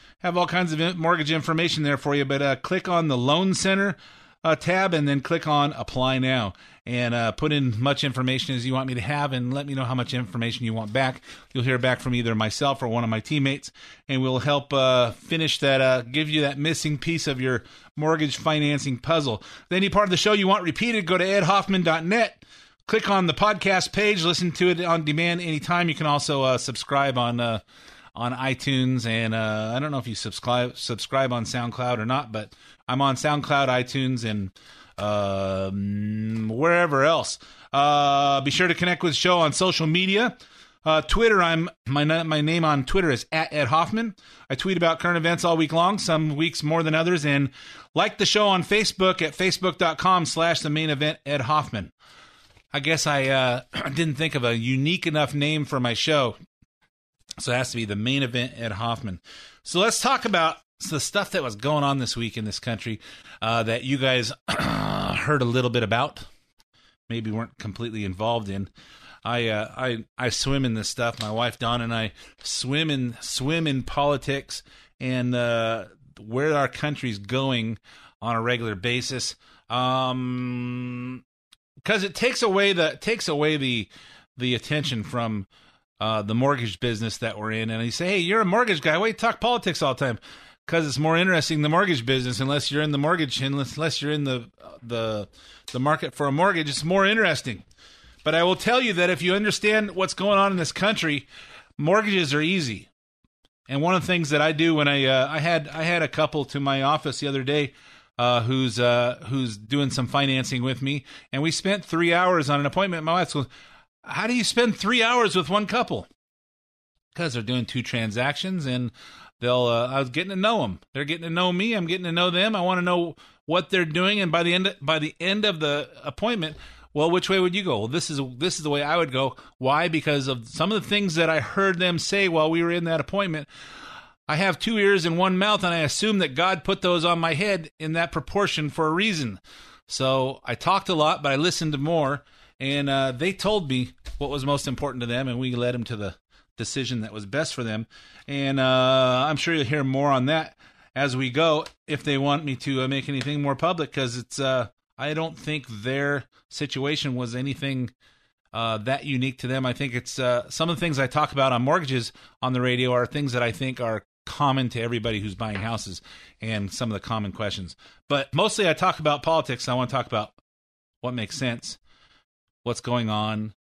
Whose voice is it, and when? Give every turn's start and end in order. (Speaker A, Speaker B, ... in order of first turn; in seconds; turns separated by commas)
Speaker A: 0.2-27.6, Speaker A: 28.1-51.9, Speaker A: 52.7-56.4, Speaker A: 57.4-66.3, Speaker A: 67.1-68.7, Speaker A: 69.2-81.2, Speaker A: 81.8-85.5, Speaker A: 86.0-97.6, Speaker A: 98.2-101.2, Speaker A: 101.8-102.9, Speaker A: 103.7-113.5, Speaker A: 114.0-116.1, Speaker A: 117.1-133.5, Speaker A: 134.3-157.9, Speaker A: 158.5-170.3, Speaker A: 171.0-171.8, Speaker A: 172.6-173.5